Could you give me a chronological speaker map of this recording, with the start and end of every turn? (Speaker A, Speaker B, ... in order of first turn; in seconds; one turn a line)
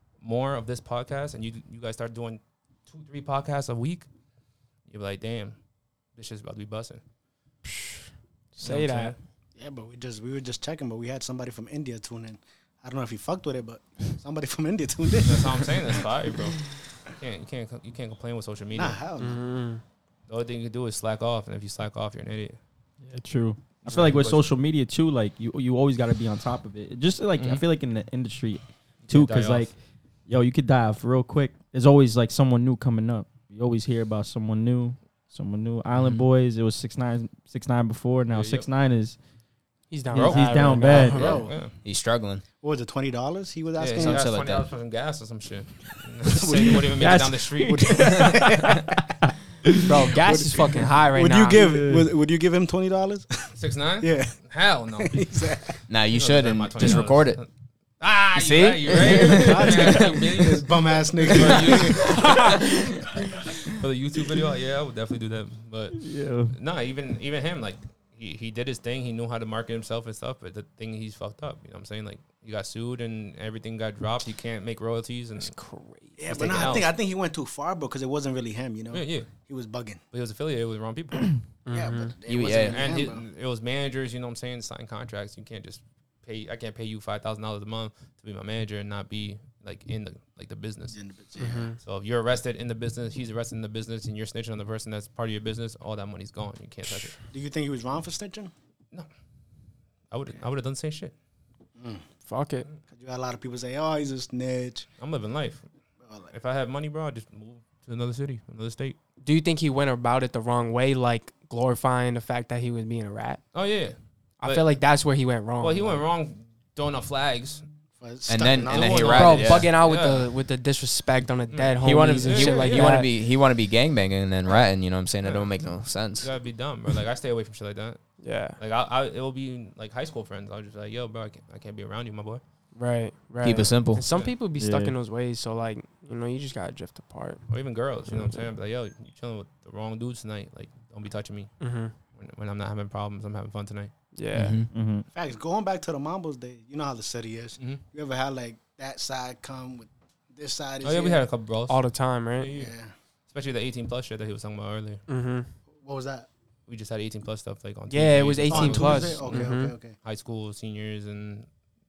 Speaker A: 0.2-4.1
Speaker A: 4.9-5.6
Speaker A: 6.1-7.0
Speaker B: 7.6-9.2
Speaker A: 8.6-9.2
Speaker C: 9.6-16.0
Speaker A: 15.2-19.0
Speaker C: 18.7-19.4
Speaker B: 19.2-19.8
Speaker A: 20.3-22.6
Speaker D: 23.0-29.8
Speaker A: 23.8-24.4
Speaker A: 27.4-27.6
Speaker A: 29.0-29.7
Speaker D: 30.3-39.2
Speaker E: 35.9-36.2
Speaker A: 38.3-38.7
Speaker B: 39.9-41.2
Speaker D: 40.1-41.4
Speaker A: 40.1-41.7
Speaker C: 41.1-41.7
Speaker E: 41.8-42.4
Speaker C: 42.6-44.2
Speaker A: 43.8-48.4
Speaker E: 44.0-44.7
Speaker C: 46.2-46.9
Speaker D: 46.8-49.0
Speaker C: 47.6-49.0
Speaker B: 49.9-51.6
Speaker C: 50.2-54.4
Speaker D: 51.6-52.1
Speaker A: 53.6-57.5
Speaker C: 54.9-55.8
Speaker E: 55.9-57.4
Speaker A: 58.0-62.5
Speaker B: 58.3-60.2
Speaker C: 59.2-62.6
Speaker B: 62.0-63.0
Speaker A: 63.6-75.5
Speaker D: 65.9-66.5
Speaker B: 75.4-76.5
Speaker C: 76.2-80.0
Speaker A: 76.3-76.9
Speaker A: 78.9-79.3
Speaker A: 80.1-81.4
Speaker B: 81.7-82.1
Speaker C: 81.7-83.2
Speaker E: 82.3-82.9
Speaker A: 82.4-91.0
Speaker C: 90.9-91.7
Speaker B: 91.4-91.8
Speaker A: 91.8-97.2
Speaker C: 97.2-98.5
Speaker A: 100.1-101.1
Speaker C: 101.8-102.0
Speaker B: 102.2-102.7
Speaker C: 102.9-104.8
Speaker A: 105.0-105.7
Speaker C: 106.0-106.3
Speaker A: 106.3-109.0
Speaker B: 109.2-113.4
Speaker A: 113.5-114.7
Speaker B: 114.4-116.0
Speaker A: 115.6-117.7
Speaker C: 118.0-119.2
Speaker E: 118.3-119.7
Speaker A: 118.7-120.3
Speaker B: 119.1-123.1
Speaker A: 121.5-123.0
Speaker E: 121.8-126.3
Speaker A: 125.2-128.0
Speaker B: 128.2-128.6
Speaker A: 128.6-132.4
Speaker B: 132.7-137.5
Speaker E: 133.4-134.0
Speaker D: 134.5-134.9
Speaker A: 137.5-143.9
Speaker B: 138.1-138.4
Speaker B: 141.6-141.9
Speaker B: 144.1-144.6
Speaker E: 144.3-144.7
Speaker D: 144.7-145.1
Speaker C: 145.1-151.2
Speaker A: 150.8-151.8
Speaker B: 151.7-152.5
Speaker A: 152.4-152.7
Speaker C: 152.5-152.9
Speaker A: 153.3-155.0
Speaker B: 155.1-155.5
Speaker C: 155.8-156.3
Speaker A: 156.7-161.5
Speaker B: 157.9-159.7
Speaker C: 158.5-159.9